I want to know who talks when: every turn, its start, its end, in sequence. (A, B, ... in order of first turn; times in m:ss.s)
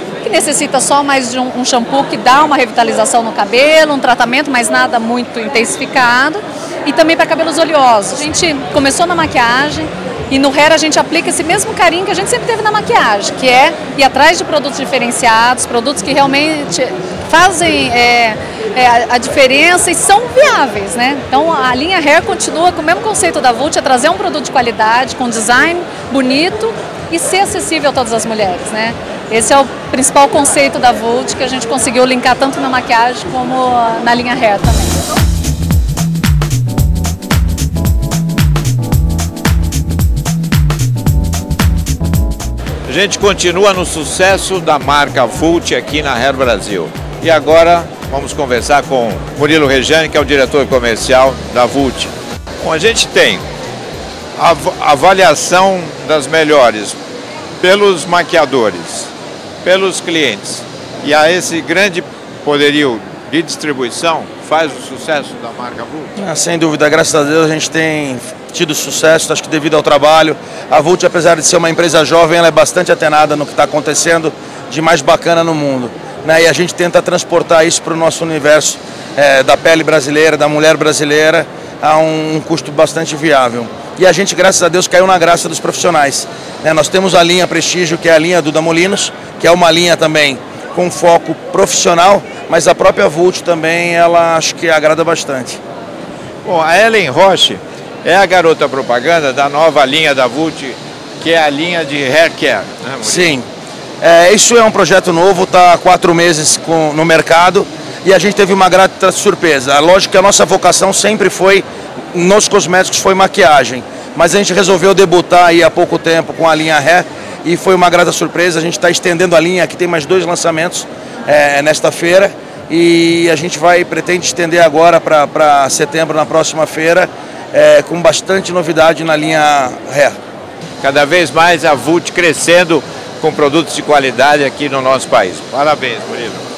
0:00.2-0:35.1 A
0:42.9-0:53.4 B
0:54.4-0:57.0 B
0:57.6-0:59.1 B
0:59.6-1:06.1 B
1:06.2-1:35.6 C
1:36.4-1:43.4 B
1:43.0-1:43.5 C
1:44.0-2:10.2 C
2:10.8-2:16.4 B